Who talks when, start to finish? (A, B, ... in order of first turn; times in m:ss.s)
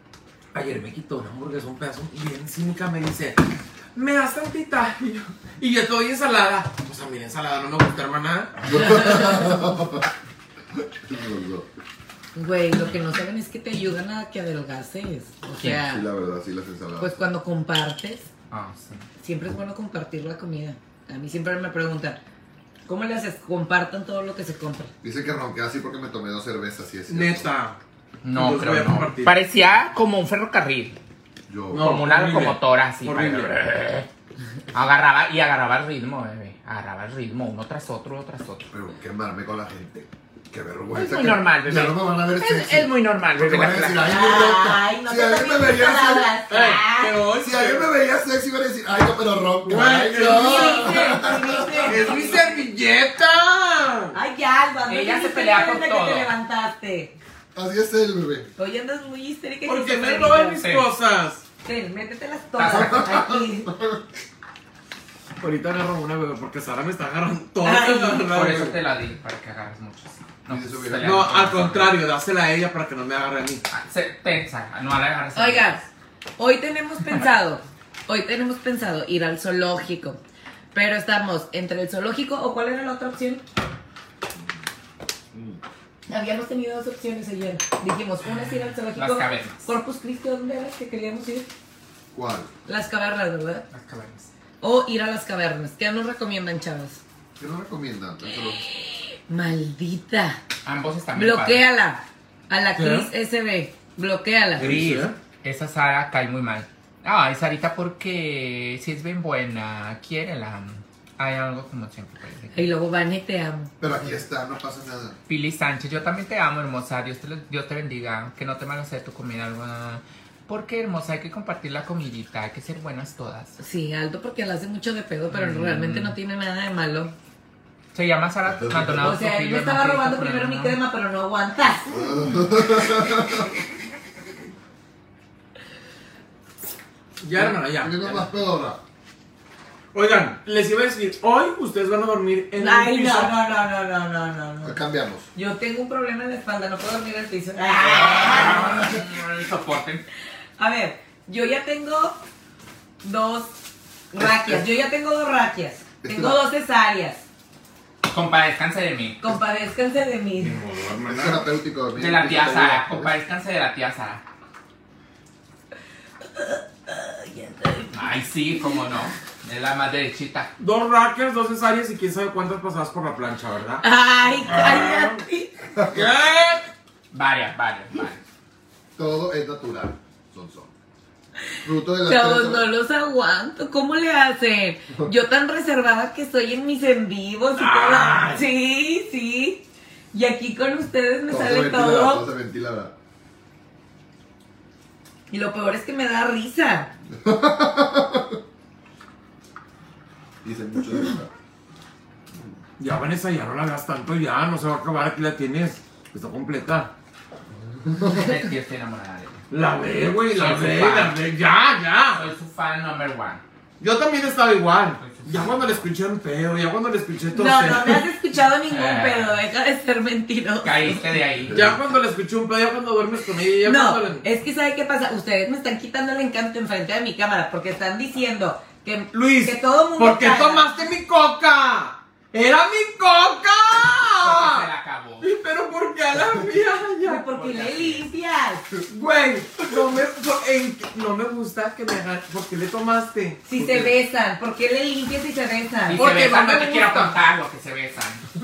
0:00.5-0:03.4 A
0:04.0-0:09.0 A
0:08.6-0:10.1 B
0:09.0-0:09.3 C
0:10.8-0:11.7 B
0:12.4-0:16.0 C
0:15.8-0:17.3 B
0:17.0-0:18.3 C
0:18.5-0:19.0 D
0:19.2-0:22.2 C
0:22.9-0:24.9 C
0:25.0-0:27.5 B
0:27.1-0:27.8 A
0:28.2-0:31.0 D
0:28.3-0:29.4 A
0:31.5-0:31.9 B
0:31.7-0:33.5 A
0:31.7-0:34.1 D
0:34.7-0:38.7 D
0:38.7-0:46.3 B
0:40.9-0:44.1 D
0:44.0-0:47.2 C
0:46.5-0:47.9 A
0:47.4-0:52.1 B
0:49.6-0:51.2 A
0:50.1-0:52.6 C
0:51.8-0:54.2 A
0:54.1-0:57.2 C
0:54.9-0:56.3 D
0:57.6-0:58.5 B
0:58.6-1:00.6 C
0:59.7-1:01.4 A
1:00.6-1:00.9 D
1:01.6-1:03.7 C
1:02.6-1:03.3 D
1:02.7-1:04.0 B
1:05.4-1:08.8 A
1:07.6-1:08.4 C
1:08.2-1:12.0 D
1:10.5-1:11.4 B
1:11.0-1:13.6 A
1:13.7-1:15.8 D
1:15.4-1:15.8 C
1:16.4-1:20.2 C
1:20.7-1:23.4 C
1:25.3-1:25.6 B
1:26.1-1:31.5 C
1:29.0-1:29.7 D
1:32.1-1:32.5 B
1:32.7-1:33.6 C
1:33.7-1:34.3 D
1:34.6-1:37.0 C
1:37.4-1:38.6 B
1:39.3-1:40.4 C
1:40.6-1:41.6 D
1:41.1-1:44.7 C
1:42.8-1:43.1 A
1:44.6-1:45.2 A
1:44.6-1:52.7 D
1:52.5-1:53.7 C
1:53.8-1:55.2 B
1:55.3-2:03.6 D
2:03.6-2:07.2 C
2:05.3-2:06.1 D
2:07.9-2:10.8 D
2:08.6-2:09.1 B
2:09.0-2:12.2 C
2:11.9-2:13.5 B
2:17.2-2:18.3 A
2:17.4-2:18.8 B
2:19.9-2:23.4 A
2:22.6-2:24.8 C
2:24.6-2:25.3 B
2:25.4-2:28.8 C
2:27.8-2:30.0 D
2:28.5-2:28.8 B
2:30.6-2:32.2 C
2:33.0-2:33.5 C
2:34.1-2:37.2 C
2:34.2-2:34.6 B
2:36.0-2:36.4 B
2:38.0-2:39.2 D
2:39.2-2:40.6 C
2:40.4-2:41.5 A
2:41.1-2:43.2 B
2:42.0-2:44.2 D
2:46.4-2:48.0 C
2:47.9-2:50.5 D
2:50.6-2:53.8 A
2:53.8-2:55.5 C
2:54.4-2:55.2 A
2:55.8-2:56.1 B
2:55.9-2:56.7 A
2:57.1-2:58.2 D
2:59.0-3:00.7 B
3:01.6-3:02.7 B
3:02.0-3:12.2 C
3:07.6-3:08.4 A
3:11.3-3:12.9 B
3:15.3-3:16.9 C
3:17.1-3:18.4 B
3:20.4-3:21.3 B
3:22.8-3:26.9 A
3:27.9-3:28.3 B
3:28.0-3:29.4 D
3:29.5-3:32.3 A
3:30.3-3:31.2 D
3:32.2-3:33.4 D
3:33.8-3:38.1 A
3:35.0-3:35.9 D
3:37.4-3:41.2 C
3:38.7-3:39.4 D
3:40.6-3:41.8 D
3:41.5-3:41.8 B
3:41.5-3:44.2 A
3:43.6-3:50.7 C
3:49.1-3:54.7 A
3:54.2-3:55.3 D
3:55.2-3:57.3 A
3:57.0-3:58.6 C
3:57.3-3:58.0 D
3:58.9-4:03.9 A
4:03.4-4:06.1 C
4:05.9-4:08.2 D
4:05.9-4:07.2 A